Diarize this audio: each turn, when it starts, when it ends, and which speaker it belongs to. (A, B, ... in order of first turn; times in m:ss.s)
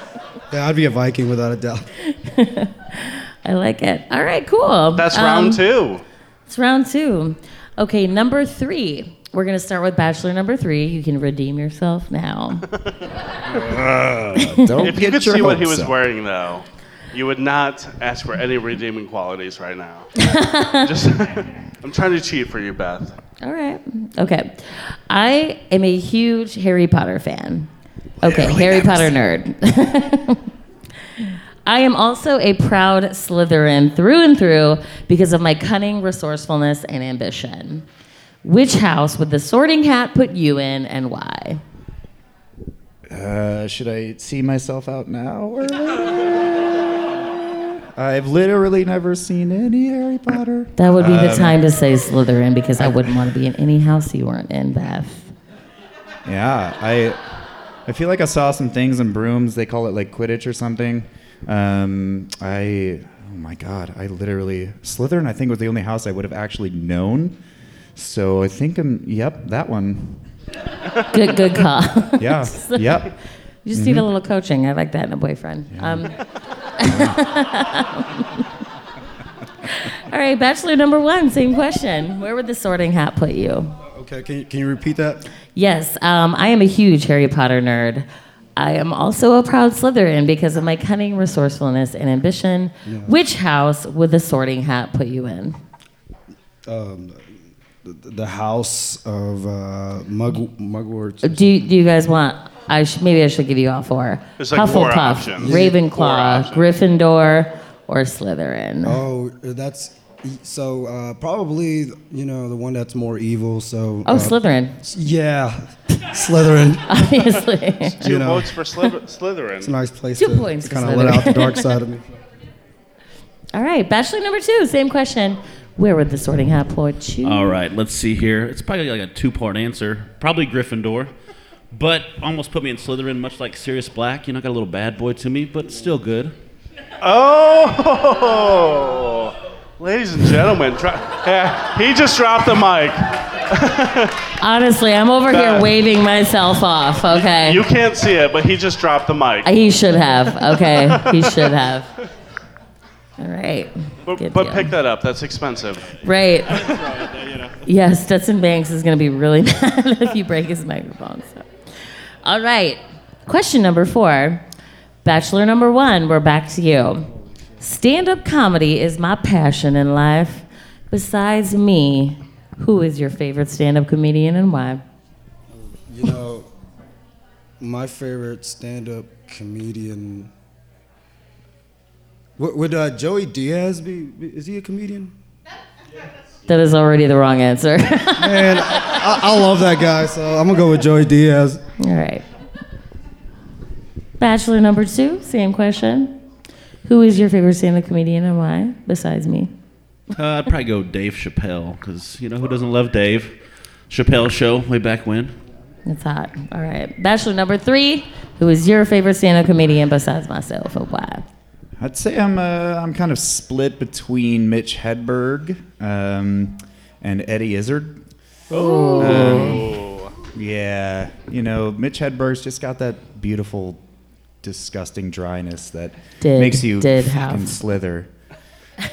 0:00.5-0:01.8 A
0:02.0-0:05.6 B
0:05.0-0:06.0 C
0:06.5-0:12.6 B
0:13.5-0:16.0 D
0:14.4-0:14.8 B
0:14.8-0:20.2 C
0:20.2-0:20.9 B
0:20.8-0:23.2 C
0:23.4-0:27.7 B
0:28.2-0:29.1 A
0:28.2-0:30.4 B
0:31.2-0:37.8 B
0:38.4-0:41.6 B
0:43.1-0:46.4 D
0:47.2-0:51.6 D
0:50.8-0:55.3 B
0:56.2-0:57.2 D
0:57.8-1:07.4 D
1:07.9-1:10.2 D
1:11.1-1:13.0 B
1:12.2-1:13.1 D
1:13.6-1:16.1 B
1:13.7-1:14.1 D
1:15.7-1:16.1 D
1:16.8-1:18.4 B
1:16.8-1:17.2 D
1:19.7-1:23.8 B
1:23.9-1:25.2 A
1:25.6-1:35.6 B
1:32.8-1:33.1 A
1:36.7-1:37.2 A
1:37.8-1:41.5 A
1:41.2-1:49.0 B
1:44.4-1:46.7 C
1:45.4-1:45.8 A
1:48.8-1:56.8 A
1:54.0-1:54.8 B
1:56.9-1:58.0 B
1:58.0-1:59.7 C
1:58.0-1:58.5 A
1:59.6-2:02.1 A
2:00.2-2:01.7 B
2:03.5-2:07.6 B
2:07.2-2:11.1 E
2:11.7-2:16.3 E
2:17.0-2:24.2 C
2:24.4-2:27.6 B
2:25.3-2:25.7 C
2:27.1-2:29.5 C
2:29.4-2:31.9 B
2:30.4-2:31.5 C
2:33.2-2:34.7 B
2:34.0-2:35.9 C
2:36.0-2:36.6 B
2:36.5-2:36.8 C
2:36.7-2:37.5 E
2:37.6-2:41.5 B
2:42.2-2:44.4 B
2:45.0-2:47.1 B
2:47.6-2:54.8 B
2:55.5-2:56.5 A
2:57.6-3:00.3 A
3:02.4-3:05.1 A
3:06.5-3:08.9 B
3:08.2-3:11.6 A
3:11.8-3:12.2 B
3:14.2-3:16.2 B
3:16.8-3:19.5 B
3:20.1-3:23.3 E
3:23.9-3:25.3 E
3:25.8-3:31.2 B
3:31.8-3:38.0 D
3:38.5-3:39.6 B
3:38.5-3:40.1 C
3:39.0-3:39.8 D
3:40.3-3:43.8 D
3:44.4-3:48.1 D
3:46.2-3:47.5 B